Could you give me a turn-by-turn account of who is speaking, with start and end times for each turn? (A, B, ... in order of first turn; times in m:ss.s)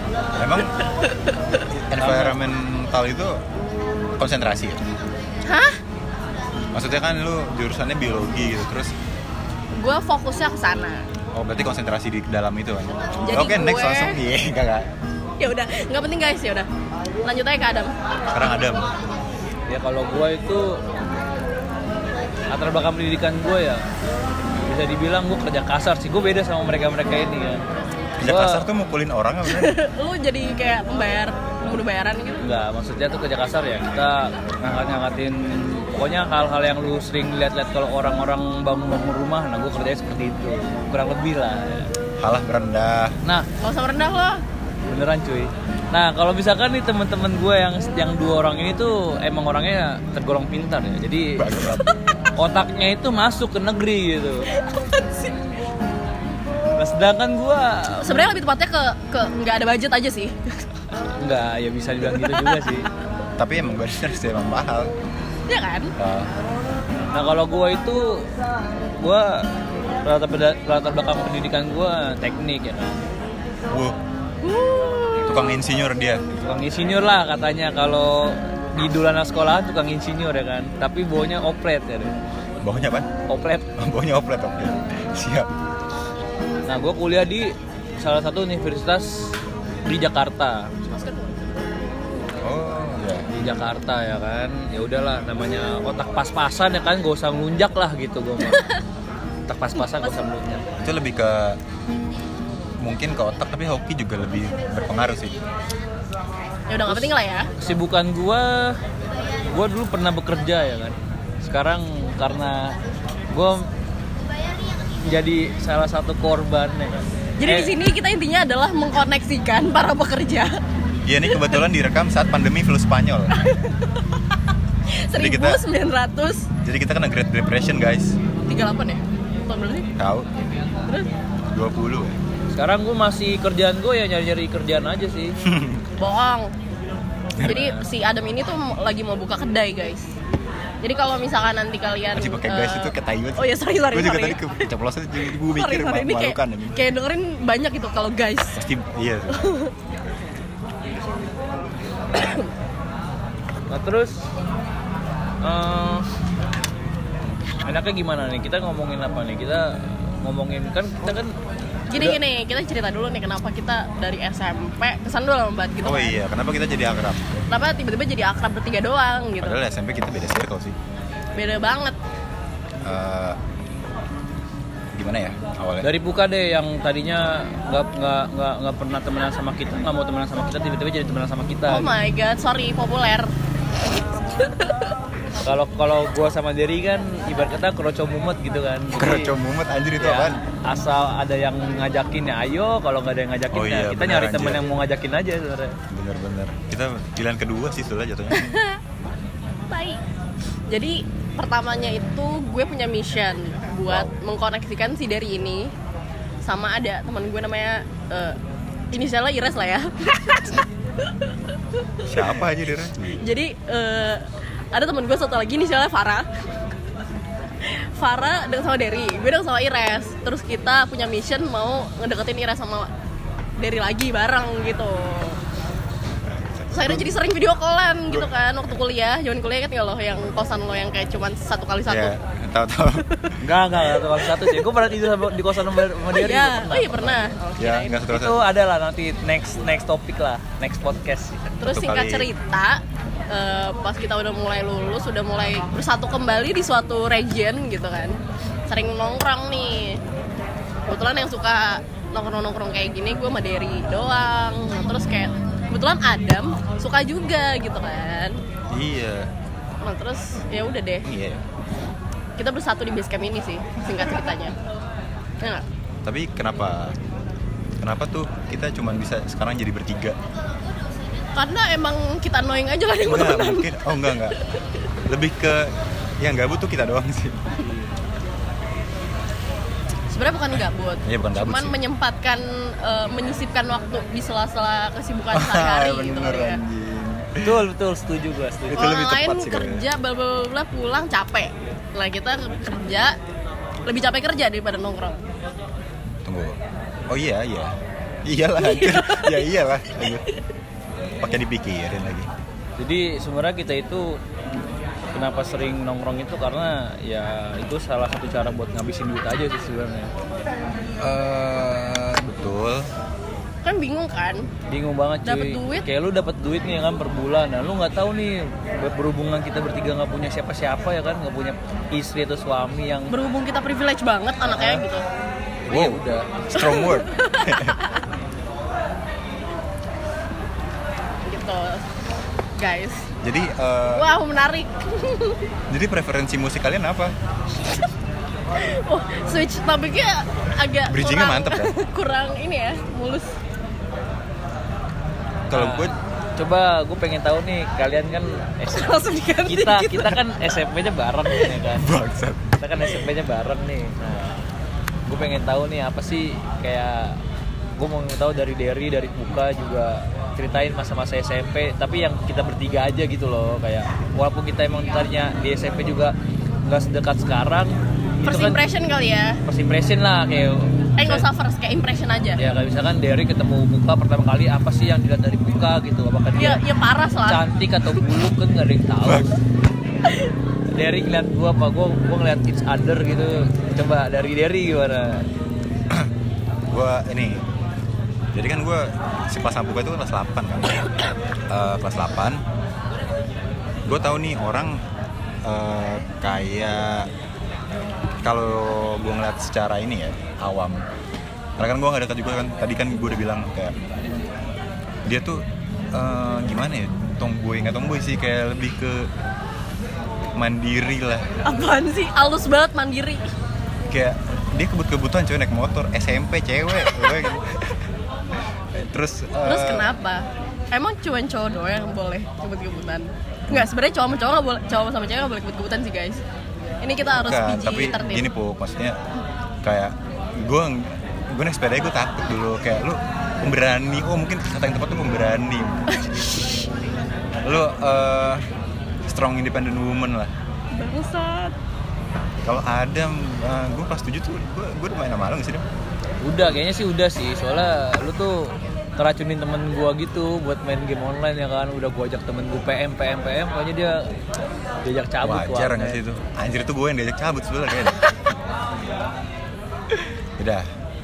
0:00.4-0:00.7 A
0:00.9-0:01.3 B
0:01.7-0:03.4 A
0:02.0-0:02.4 C
0:04.2-0:04.8 A
0:05.5-0:05.8 B
0:06.7-0:08.9 A
0:09.7-0:11.0 B
0:11.3-0:14.9 A
0:13.2-0:14.2 B
0:15.4-0:16.7 B
0:17.2-0:17.9 B
0:18.3-0:18.9 A
0:19.7-0:20.9 C
0:22.5-0:23.8 C
0:24.6-0:27.6 C
0:28.2-0:29.7 A
0:28.2-0:28.7 C
0:29.4-0:32.4 B
0:32.4-0:41.9 C
0:42.2-0:43.1 A
0:43.6-0:44.4 B
0:44.9-0:51.4 C
0:51.4-0:51.8 A
0:52.4-0:54.5 C
0:54.6-0:55.3 B
0:56.8-0:58.3 C
0:58.0-1:00.6 B
1:01.1-1:02.9 C
1:02.2-1:02.7 B
1:03.4-1:04.9 A
1:05.5-1:05.9 B
1:06.0-1:06.3 A
1:07.1-1:08.3 C
1:09.0-1:09.5 C
1:10.0-1:13.0 C
1:13.7-1:14.0 A
1:14.4-1:15.5 B
1:15.2-1:16.2 A
1:16.4-1:22.1 C
1:22.6-1:23.1 A
1:23.2-1:23.7 C
1:23.8-1:25.5 A
1:26.7-1:30.7 C
1:30.8-1:31.5 B
1:32.4-1:33.3 A
1:33.3-1:38.7 C
1:38.5-1:38.8 B
1:39.5-1:40.6 C
1:40.8-1:41.6 A
1:42.8-1:45.4 A
1:46.7-1:47.5 B
1:46.9-1:48.8 C
1:49.4-1:52.8 C
1:53.3-1:53.7 C
1:55.0-1:57.7 C
1:57.4-2:00.6 B
2:01.0-2:03.3 A
2:03.3-2:04.0 B
2:04.9-2:06.5 B
2:05.2-2:05.6 A
2:06.6-2:08.2 A
2:08.5-2:09.9 B
2:10.0-2:10.3 A
2:11.5-2:12.2 A
2:12.5-2:15.4 C
2:15.4-2:15.8 A
2:16.0-2:16.5 B
2:17.4-2:17.8 C
2:17.4-2:20.1 B
2:20.8-2:24.6 B
2:22.1-2:26.8 A
2:25.3-2:28.6 B
2:28.6-2:29.6 A
2:29.3-2:29.7 B
2:32.1-2:32.5 B
2:33.7-2:34.2 C
2:35.4-2:36.0 C
2:37.6-2:41.4 C
2:41.9-2:46.1 B
2:45.8-2:47.2 A
2:47.5-2:49.6 B
2:49.4-2:50.8 A
2:51.4-2:52.0 B
2:52.8-2:53.4 A
2:54.9-2:55.9 A
2:55.8-3:01.9 C
3:01.7-3:03.3 B
3:05.4-3:09.3 C
3:08.9-3:10.4 A
3:10.0-3:15.8 C
3:13.5-3:14.6 A
3:15.9-3:18.5 A
3:18.3-3:18.8 B
3:19.7-3:20.0 B
3:20.7-3:25.7 B
3:23.9-3:24.1 A
3:26.4-3:28.4 B
3:28.9-3:32.2 B
3:32.0-3:33.2 A
3:33.2-3:36.2 B
3:37.6-3:42.9 B
3:43.6-3:45.4 B
3:46.2-3:47.1 A
3:46.7-3:52.1 B
3:51.8-3:53.3 A
3:53.4-3:57.3 C
3:56.1-3:58.0 B
3:57.6-3:58.4 A
3:58.1-4:01.5 C
4:01.6-4:10.0 B
4:01.6-4:02.3 A
4:10.9-4:18.4 B
4:18.7-4:19.3 A
4:19.8-4:21.1 B
4:21.0-4:21.4 A
4:22.4-4:24.5 B
4:26.0-4:27.0 A
4:27.8-4:30.2 A
4:31.3-4:34.5 B
4:33.0-4:34.4 A
4:35.1-4:37.4 A
4:40.1-4:46.6 B
4:41.0-4:41.8 A
4:45.3-4:47.6 A
4:47.4-4:48.9 C
4:48.7-4:49.8 A
4:48.7-4:53.2 B
4:53.8-4:55.2 B
4:56.2-5:00.2 A
4:58.6-4:59.4 B
5:01.2-5:02.3 A
5:02.8-5:04.2 C
5:05.1-5:10.1 C
5:11.0-5:12.9 A
5:13.6-5:14.5 B
5:14.7-5:23.1 C
5:15.2-5:15.8 B
5:23.1-5:25.0 B
5:24.4-5:24.8 C
5:25.7-5:26.3 C
5:25.7-5:27.8 A
5:26.5-5:28.0 B
5:31.2-5:31.8 B
5:32.6-5:33.1 B
5:33.2-5:34.1 A
5:33.9-5:35.4 B
5:35.7-5:37.1 A
5:38.6-5:43.3 B
5:40.9-5:41.7 A
5:45.5-5:45.9 A
5:45.5-5:51.9 C
5:48.7-5:50.2 B
5:51.7-5:52.5 A
5:52.6-5:54.4 C
5:55.1-5:57.2 C
5:57.8-6:08.6 C
6:08.2-6:09.4 B
6:09.4-6:11.2 C
6:11.0-6:12.4 B
6:12.4-6:16.6 C
6:16.4-6:17.4 B
6:17.3-6:19.3 C
6:19.0-6:19.3 A
6:20.7-6:25.2 C
6:26.7-6:27.4 A
6:28.3-6:30.8 A
6:31.5-6:32.4 A
6:33.8-6:34.8 A
6:35.4-6:37.1 A
6:38.2-6:40.8 A
6:41.6-6:43.8 A
6:45.0-6:49.1 A
6:50.4-6:51.3 A
6:51.4-6:53.3 B
6:53.9-6:57.8 A
6:56.8-6:57.2 B
6:58.7-6:59.9 A
6:59.4-7:06.2 B
7:06.8-7:08.2 B
7:07.1-7:09.0 A
7:09.6-7:15.8 A
7:17.4-7:18.4 A
7:19.1-7:20.3 A
7:20.7-7:21.6 B
7:22.4-7:25.6 A
7:26.2-7:34.1 C
7:34.8-7:36.0 C
7:35.2-7:38.0 A
7:40.4-7:40.7 A